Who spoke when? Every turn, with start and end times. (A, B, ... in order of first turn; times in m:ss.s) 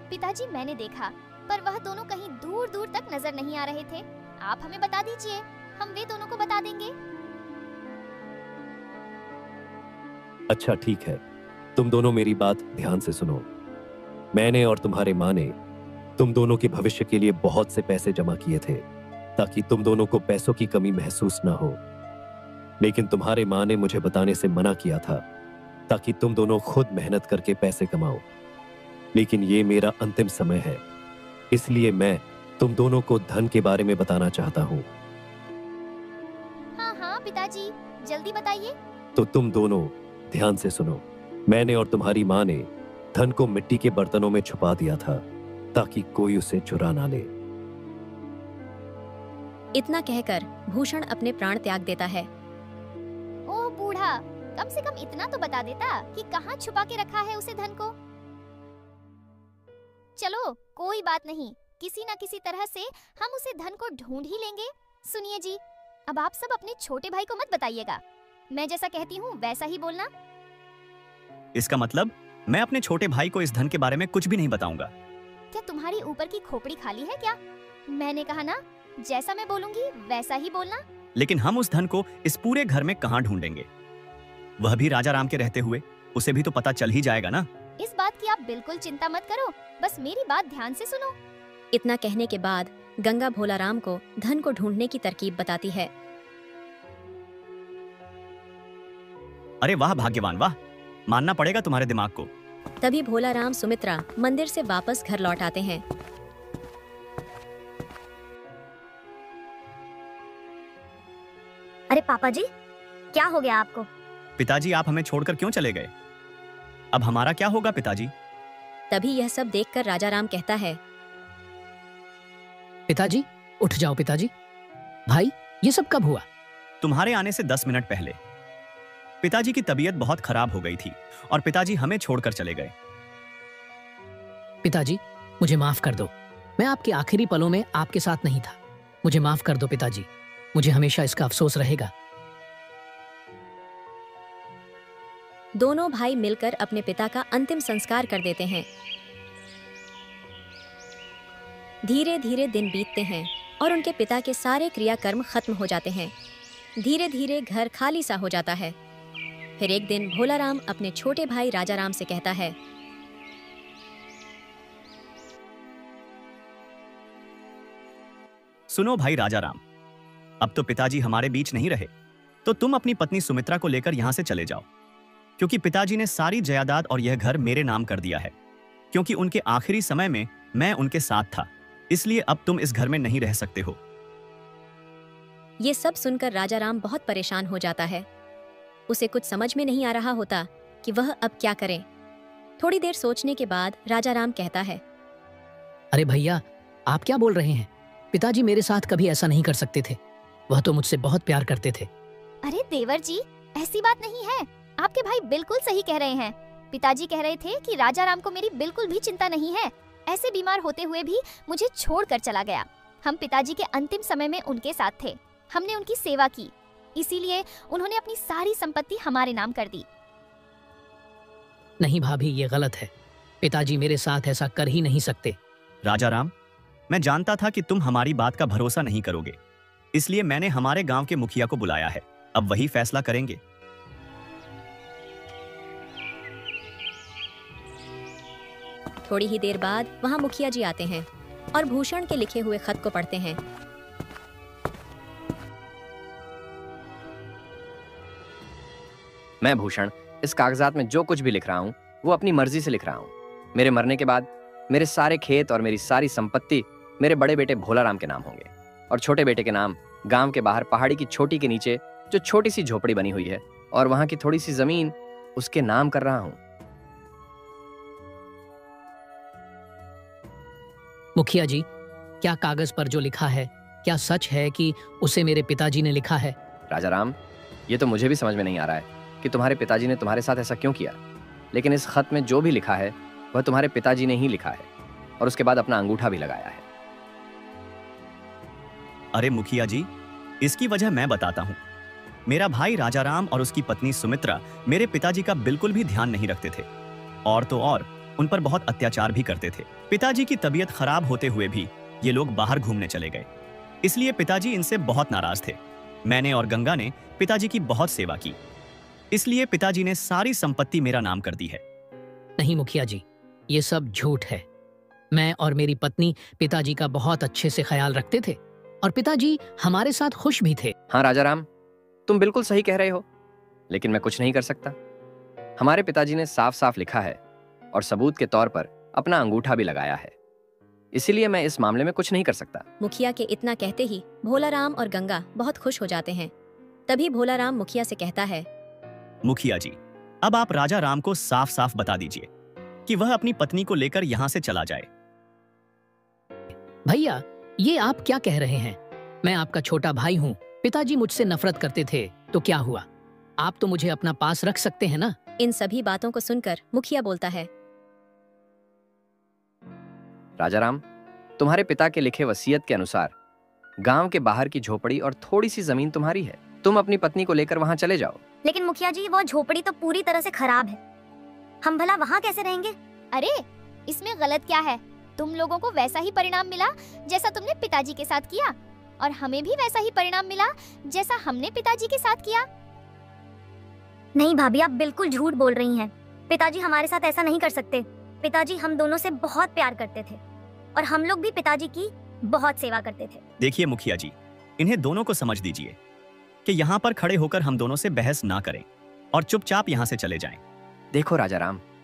0:00.1-0:06.9 A
0:10.5-0:11.2 B
0:11.8-0:13.5 B
0:14.3-0:15.5 B
0:16.2-0:18.8 B
0:19.4-0:21.8 B
0:22.8-0:25.2 B
0:25.9-0:28.2 B
0:29.2-0:30.8 B
0:31.5-0:34.9 B
0:36.8-0:38.8 A
0:39.2-0:45.2 B
0:45.7-0:47.3 B
0:49.8-0:52.3 C
0:53.5-0:57.9 A
1:00.2-1:08.0 A
1:08.5-1:10.1 A
1:11.6-1:14.9 D
1:15.5-1:17.4 A
1:17.9-1:20.8 A
1:21.2-1:23.7 D
1:24.6-1:27.5 D
1:27.8-1:31.2 A
1:31.7-1:35.9 C
1:39.6-1:40.6 D
1:41.1-1:42.3 D
1:42.8-1:45.8 C
1:51.9-1:52.5 E
1:53.1-1:53.9 E
1:54.4-1:55.9 D
1:56.9-1:58.1 D
1:58.9-2:00.8 C
2:02.9-2:04.3 F
2:05.1-2:06.3 F
2:06.8-2:08.2 D
2:09.2-2:12.7 D
2:14.6-2:21.9 F
2:25.6-2:28.7 C
2:31.8-2:36.1 C
2:36.8-2:38.8 C
2:39.6-2:42.6 C
2:48.7-2:49.6 D
2:50.4-2:51.9 D
2:52.4-2:54.7 D
2:55.4-2:58.3 D
2:58.9-3:03.8 D
3:05.6-3:08.1 C
3:08.9-3:11.8 C
3:12.6-3:14.8 C
3:15.9-3:20.0 F
3:20.5-3:21.9 F
3:22.4-3:39.9 A
3:41.8-3:42.9 F
3:43.4-3:45.4 F
3:45.8-3:46.3 D
3:46.9-3:49.4 D
3:49.9-3:53.4 D
3:59.0-4:03.4 C
4:09.4-4:26.4 G
4:31.2-4:31.7 F
4:32.2-4:36.4 F
4:36.7-4:37.2 G
4:37.7-4:41.0 G
4:41.5-4:44.7 G
4:45.2-4:46.6 G
4:49.1-4:49.9 D
4:50.4-4:51.6 D
4:52.3-4:56.7 D
4:57.2-5:03.3 D
5:03.8-5:08.4 D
5:09.1-5:11.6 D
5:12.4-5:14.4 F
5:15.1-5:20.8 F
5:20.9-5:21.5 G
5:22.1-5:23.0 G
5:23.7-5:24.8 G
5:25.6-5:27.2 G
5:27.7-5:30.1 G
5:30.9-5:32.6 G
5:32.8-5:36.3 C
5:36.9-5:38.5 C
5:39.2-5:42.3 D
5:42.9-5:44.9 D
5:46.9-5:52.9 F
5:53.4-5:55.2 F
5:55.4-5:57.5 C
6:00.4-6:00.8 G
6:01.4-6:03.1 G
6:03.8-6:08.2 G
6:08.4-6:10.8 E
6:11.6-6:12.8 E
6:13.1-6:22.5 A
6:24.2-6:30.2 E
6:30.8-6:33.2 E
6:33.4-6:35.8 D
6:36.4-6:40.4 D
6:40.9-6:41.6 G